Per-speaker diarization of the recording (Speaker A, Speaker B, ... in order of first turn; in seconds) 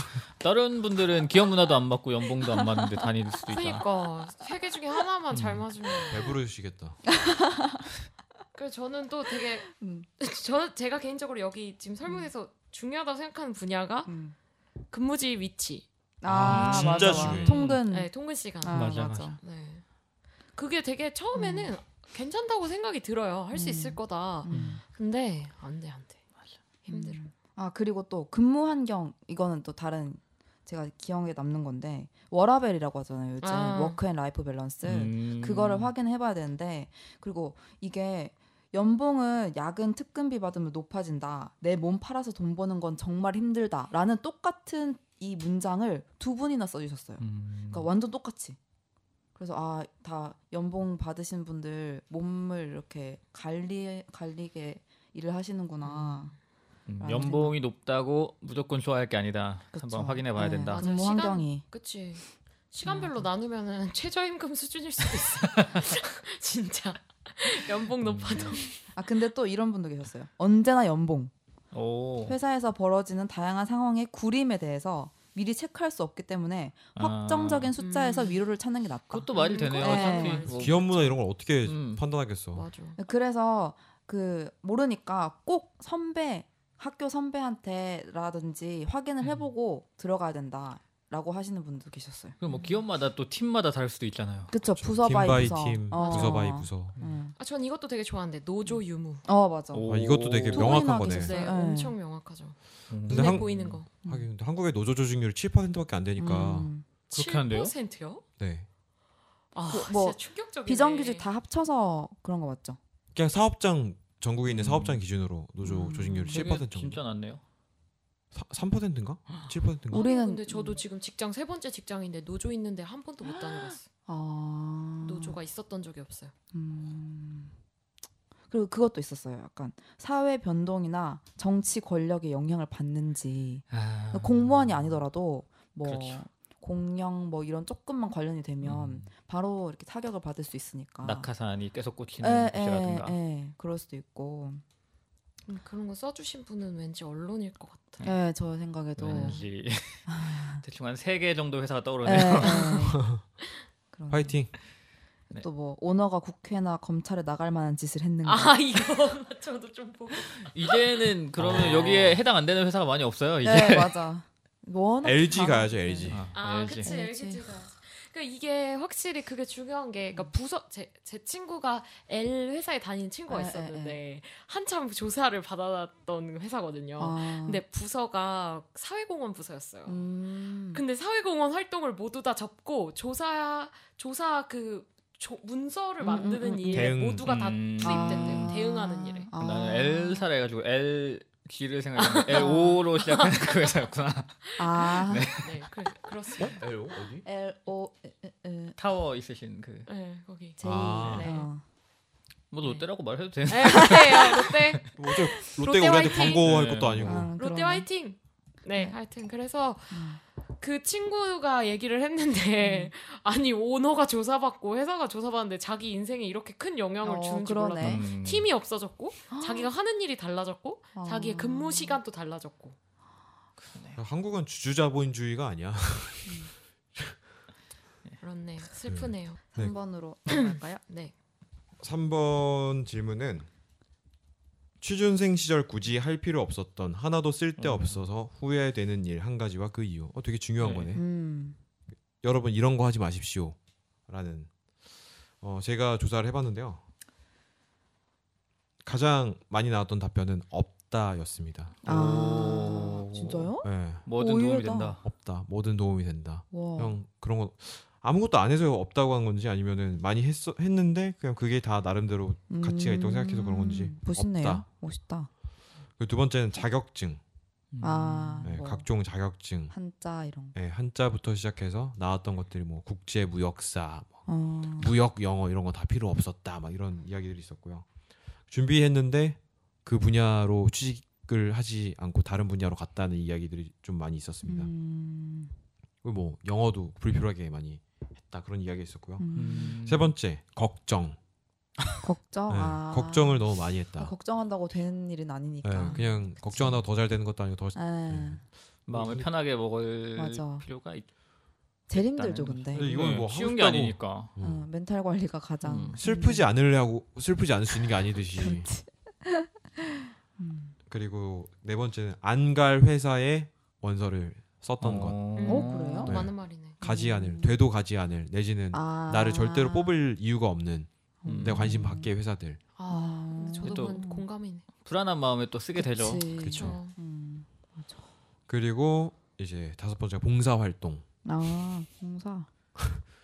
Speaker A: 0.4-3.8, 5.3-5.6, 16.4-17.8, 18.7-19.4, 24.5-24.8, 34.8-35.9, 47.2-47.9, 56.9-60.8, 68.0-68.6, 71.7-72.4, 77.0-77.7, 79.1-81.1, 81.7-82.0, 92.4-94.5, 99.7-101.0, 102.9-103.8, 107.1-107.7, 114.5-115.0, 116.3-117.4, 133.7-135.0, 135.8-136.2, 138.6-139.1, 141.0-143.2, 149.0-152.8, 160.3-164.0, 166.1-166.9, 187.2-188.6, 189.4-195.6, 198.8-199.9, 202.5-204.9, 206.4-207.3, 217.8-218.5, 223.6-224.0, 237.6-238.0, 240.6-241.0, 251.8-253.5, 254.1-255.0, 267.7-268.5, 289.3-290.1, 295.8-296.8, 298.9-301.1, 301.9-304.3, 305.6-306.0, 314.8-316.2, 321.3-321.8, 323.6-324.0, 324.8-326.3
Speaker B: 2.5-2.9, 7.1-7.8, 9.6-10.1, 14.1-14.4, 16.2-19.4, 21.4-21.7, 23.5-24.8, 26.9-48.6, 49.4-56.3, 57.0-57.6, 59.7-61.6, 62.9-63.2, 68.9-71.3, 72.3-80.5, 83.0-92.4, 94.5-97.3, 99.2-99.9, 100.5-102.0, 106.2-106.8, 109.7-112.8, 115.6-116.5, 119.9-120.8, 123.7-125.4, 126.5-127.5, 128.5-141.3, 142.2-144.6, 148.0-149.4, 150.1-150.6, 152.0-153.0, 153.9-154.4, 155.3-158.6, 163.4-166.2, 166.8-167.4, 173.3-174.0, 177.0-177.6, 179.9-180.8, 186.0-187.0, 187.8-190.3, 192.3-192.8, 194.6-195.4, 197.2-198.8, 200.6-201.6, 203.8-204.0, 207.0-207.9, 209.9-210.2, 212.6-212.9, 217.0-218.1, 219.3-219.7, 220.9-222.0, 226.2-226.5, 229.5-230.8, 240.9-241.6, 251.8-255.0, 256.5-257.0, 262.5-265.3, 267.8-268.9, 269.7-270.6, 274.3-275.0, 284.4-285.5, 289.2-289.8, 292.0-293.4, 294.0-296.7, 297.8-298.4, 300.2-300.7, 301.9-302.9, 304.4-306.5, 308.4-310.8, 315.5-316.2, 316.8-317.6, 318.7-320.0, 321.2-322.1, 322.9-324.2, 325.8-328.1, 331.2-332.5
Speaker C: 3.5-6.3, 8.5-9.7, 10.2-14.1, 14.9-15.9, 17.4-19.8, 20.5-26.2, 26.9-27.2, 33.4-34.0, 55.8-56.3, 60.7-68.8, 77.8-78.4, 79.3-80.8, 82.5-83.0, 92.5-92.8, 95.9-96.4, 97.4-99.2, 101.1-103.9, 107.1-108.2, 109.5-111.3, 119.9-123.9, 125.0-126.3, 145.5-148.0, 149.1-149.4, 158.2-162.0, 166.3-180.0, 180.7-189.3, 192.0-193.5, 194.7-196.6, 199.9-201.5, 203.5-204.9, 205.5-206.4, 207.4-222.8, 228.2-229.4, 230.3-231.1, 315.4-316.8, 322.8-324.7, 326.6-326.9
Speaker D: 6.1-7.0, 16.3-17.7, 80.5-82.7, 94.7-97.0, 99.9-101.3, 103.1-106.7, 108.4-108.7, 113.2-117.0, 118.3-120.0, 152.9-153.2, 154.1-154.5, 161.4-162.2, 165.0-166.3, 186.7-187.3, 196.4-197.2, 200.6-201.3, 205.0-207.3, 224.0-227.2, 228.9-229.7, 231.8-233.5, 234.8-241.0, 242.2-243.6, 244.1-244.5, 245.4-246.8, 248.8-251.8, 253.6-254.1, 255.0-264.6, 266.0-267.2, 268.4-269.7, 270.5-274.3, 274.8-277.9, 278.5-284.7, 286.0-291.2, 292.5-294.1, 295.6-299.3, 302.7-304.7, 306.0-308.7, 310.9-315.2, 316.1-322.6, 326.4-326.8, 328.5-331.1